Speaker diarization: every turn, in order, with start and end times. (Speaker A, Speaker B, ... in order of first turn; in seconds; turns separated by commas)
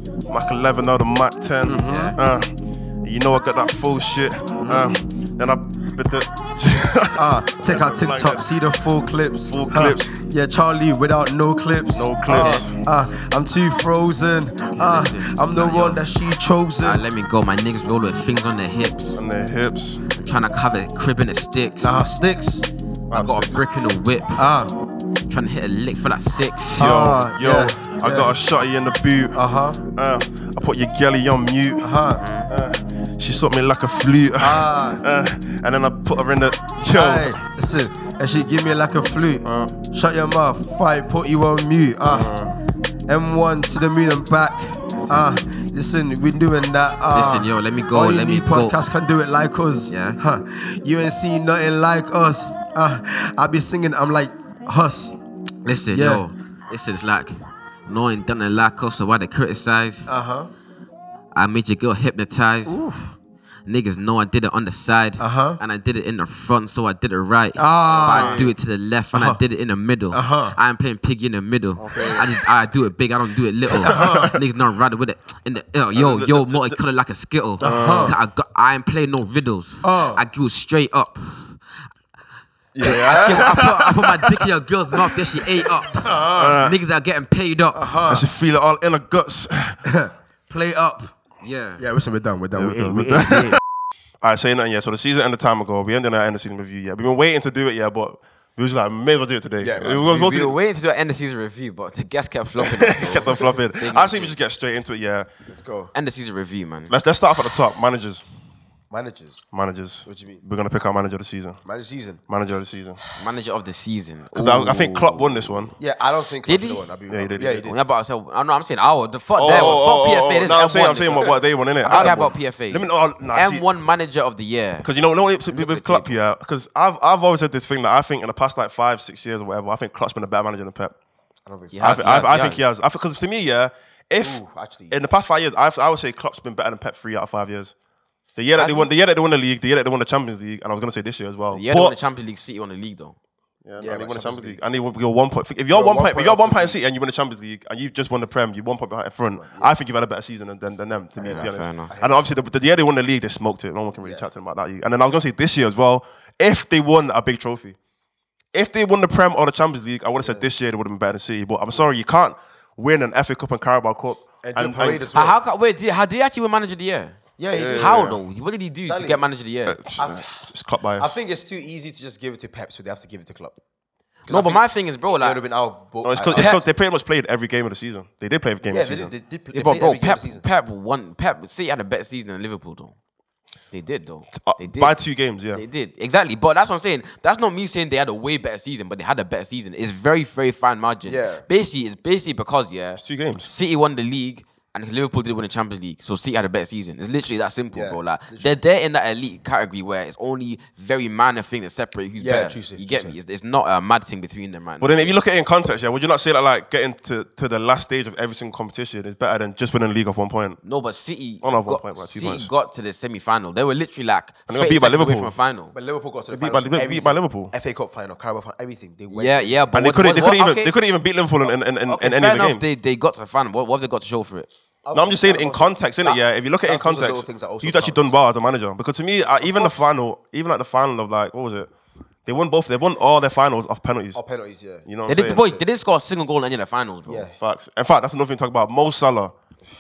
Speaker A: 0.3-8.4, Speaker B: 1.6-2.1, Speaker C: 1.9-2.2, Speaker B: 4.6-4.9, Speaker B: 7.2-17.0, Speaker A: 9.5-10.2, Speaker A: 11.9-12.8, Speaker C: 12.3-12.7, Speaker C: 14.6-16.0, Speaker C: 16.8-19.2, Speaker A: 19.2-20.0, Speaker C: 20.1-22.0, Speaker B: 21.8-22.7, Speaker A: 23.1-23.6, Speaker C: 23.1-24.4, Speaker B: 24.4-24.7, Speaker C: 25.3-27.1, Speaker B: 26.8-28.3, Speaker A: 26.8-29.4, Speaker B: 29.4-29.8, Speaker A: 29.9-31.9, Speaker B: 31.8-32.2, Speaker C: 32.2-32.5, Speaker A: 32.5-37.4, Speaker B: 34.4-35.0, Speaker B: 36.9-42.3, Speaker A: 39.5-39.8, Speaker A: 42.1-42.6, Speaker B: 43.1-55.1, Speaker C: 47.1-48.8, Speaker C: 49.9-50.2, Speaker C: 55.6-60.1, Speaker B: 55.9-56.2, Speaker B: 60.1-60.5, Speaker C: 61.3-62.8, Speaker B: 62.7-63.1, Speaker C: 63.7-81.6, Speaker B: 65.2-65.6, Speaker B: 67.6-68.5, Speaker A: 68.0-68.5, Speaker B: 69.1-69.4, Speaker B: 70.1-70.6, Speaker A: 71.8-72.2, Speaker B: 73.8-74.3, Speaker A: 73.9-74.4, Speaker A: 76.0-76.8, Speaker B: 77.6-78.2, Speaker A: 77.6-78.2, Speaker B: 79.8-80.2, Speaker A: 82.7-84.5, Speaker B: 82.8-83.6, Speaker C: 82.9-87.9, Speaker B: 85.9-86.6, Speaker A: 86.3-86.8, Speaker B: 87.7-88.3, Speaker A: 88.1-89.8, Speaker B: 89.9-91.1, Speaker C: 91.4-91.8, Speaker B: 91.8-93.6, Speaker A: 92.6-93.6, Speaker A: 94.2-100.5, Speaker B: 99.6-100.5, Speaker C: 100.1-104.4, Speaker A: 102.6-105.3, Speaker B: 105.5-105.9, Speaker C: 105.9-106.9, Speaker A: 106.9-108.2, Speaker B: 108.9-109.4, Speaker A: 109.5-111.6, Speaker B: 110.1-110.4, Speaker B: 111.7-112.2, Speaker A: 112.3-113.0, Speaker C: 113.2-115.7, Speaker A: 114.3-115.8, Speaker B: 115.8-117.8, Speaker C: 116.4-116.8, Speaker A: 117.1-117.7, Speaker C: 117.6-124.9, Speaker A: 119.4-123.6, Speaker B: 119.5-119.8, Speaker B: 121.2-122.3, Speaker A: 124.8-130.9, Speaker C: 125.5-126.2, Speaker B: 131.5-132.3, Speaker C: 131.7-132.6, Speaker A: 131.8-137.8, Speaker B: 134.2-135.0, Speaker A: 138.4-141.9, Speaker C: 138.6-138.9, Speaker C: 141.5-143.2, Speaker A: 143.7-157.8, Speaker B: 143.8-144.6, Speaker B: 145.7-146.8, Speaker B: 149.4-149.7, Speaker B: 151.2-152.3, Speaker C: 151.2-151.9, Speaker B: 154.0-154.3, Speaker A: 158.5-165.1, Speaker B: 160.2-160.5, Speaker B: 164.4-165.4, Speaker C: 165.1-167.2, Speaker B: 167.4-168.1, Speaker A: 167.5-168.2, Speaker C: 167.7-169.8, Speaker B: 168.9-169.2, Speaker A: 169.7-171.2, Speaker B: 170.0-170.4, Speaker B: 171.0-173.6, Speaker B: 174.3-174.6, Speaker C: 174.3-175.4, Speaker B: 175.2-176.6, Speaker A: 176.0-179.1, Speaker C: 176.3-176.6, Speaker B: 178.6-180.4, Speaker C: 179.5-182.9, Speaker C: 183.7-185.0, Speaker A: 184.3-185.6, Speaker C: 185.5-205.2, Speaker B: 191.1-191.4, Speaker A: 193.0-193.5, Speaker B: 197.7-198.6, Speaker B: 202.2-203.2, Speaker A: 204.8-210.6, Speaker C: 210.6-215.7, Speaker A: 211.4-212.5, Speaker A: 214.5-215.3, Speaker B: 215.7-219.6, Speaker A: 216.3-217.5, Speaker C: 219.1-220.8, Speaker A: 219.7-222.6, Speaker C: 221.8-224.5, Speaker B: 224.8-228.2, Speaker A: 224.9-231.7, Speaker C: 229.4-229.8, Speaker A: 232.3-234.2, Speaker B: 234.2-235.6, Speaker A: 234.9-235.5, Speaker C: 235.1-237.3, Speaker B: 237.1-237.4, Speaker A: 237.4-239.3